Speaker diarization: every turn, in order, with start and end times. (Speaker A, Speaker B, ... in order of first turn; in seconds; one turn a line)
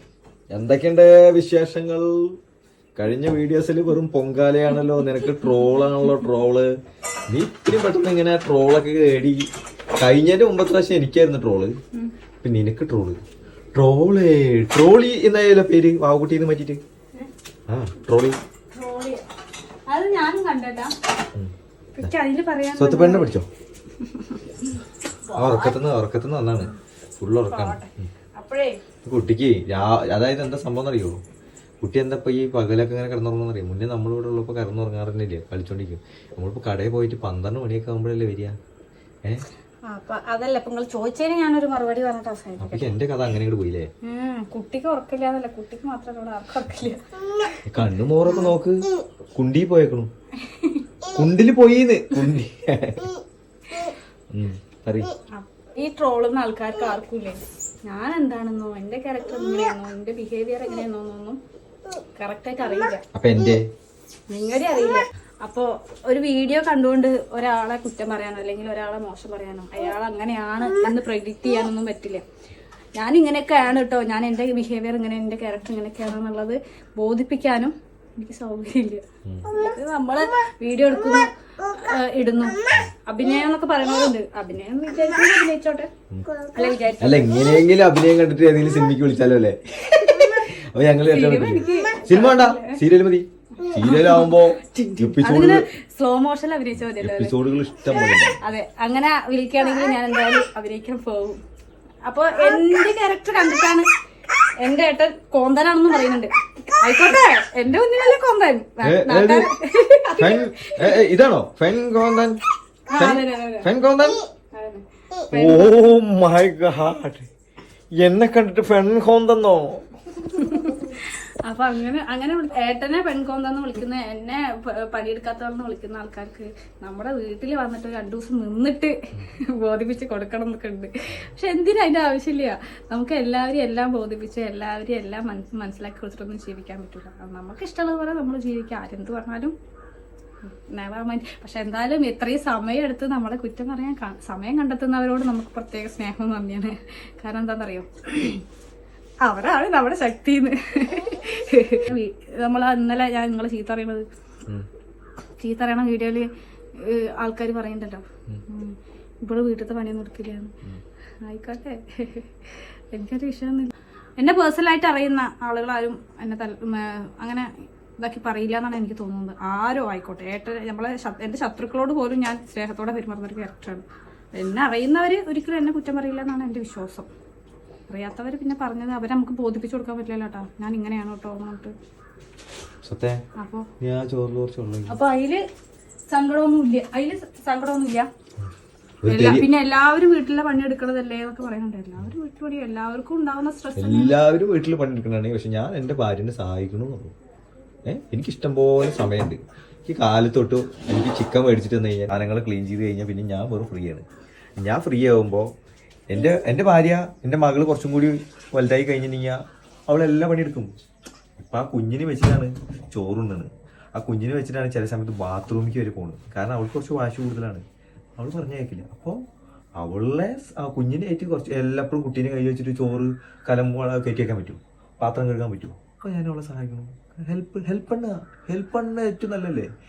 Speaker A: 0.5-2.4
Speaker A: 3.0-6.7
Speaker B: 5.2-5.6
Speaker A: 7.3-9.5
Speaker A: 10.0-11.7
Speaker A: 12.4-13.2
Speaker A: 13.8-16.8
Speaker A: 17.7-18.4
Speaker B: 18.7-19.2
Speaker B: 19.9-20.9
Speaker B: 21.9-23.4
Speaker A: 22.8-23.5
Speaker B: 24.0-25.8
Speaker A: 25.3-28.1
Speaker B: 27.5-28.8
Speaker A: 29.1-31.2
Speaker A: 31.8-38.6
Speaker B: 39.9-43.0
Speaker A: 42.6-43.9
Speaker B: 44.0-47.6
Speaker A: 47.7-48.8
Speaker B: 48.2-48.5
Speaker A: 49.4-50.1
Speaker B: 50.4-50.9
Speaker A: 51.1-53.1
Speaker A: 54.3-55.1
Speaker B: 55.4-61.4
Speaker B: 62.2-63.0
Speaker A: 63.1-63.6
Speaker B: 64.3-72.2
Speaker B: 73.0-85.9
Speaker A: 79.3-79.5
Speaker B: 86.5-87.5
Speaker A: 87.0-95.7
Speaker B: 90.0-90.5
Speaker B: 91.1-92.8
Speaker B: 93.6-101.4
Speaker A: 96.8-98.4
Speaker B: 102.0-103.9
Speaker B: 104.6-111.1
Speaker A: 108.8-109.5
Speaker A: 110.2-112.4
Speaker B: 112.9-113.7
Speaker A: 112.9-114.2
Speaker B: 114.5-115.8
Speaker A: 115.3-117.3
Speaker A: 118.0-119.8
Speaker B: 120.2-139.6
Speaker B: 140.4-148.4
Speaker B: 149.2-154.1
Speaker B: 155.4-160.5
Speaker B: 161.2-177.1
Speaker B: 177.9-181.7
Speaker A: 182.8-183.2
Speaker B: 183.4-183.7
Speaker A: 183.8-185.0
Speaker B: 184.9-185.4
Speaker B: 186.1-188.1
Speaker A: 189.0-189.5
Speaker B: 189.1-194.2
Speaker A: 193.8-197.1
Speaker A: 197.8-204.0
Speaker A: 204.6-205.5
Speaker A: 206.1-210.7
Speaker A: 211.4-217.6
Speaker A: 218.2-219.2
Speaker A: 219.8-229.7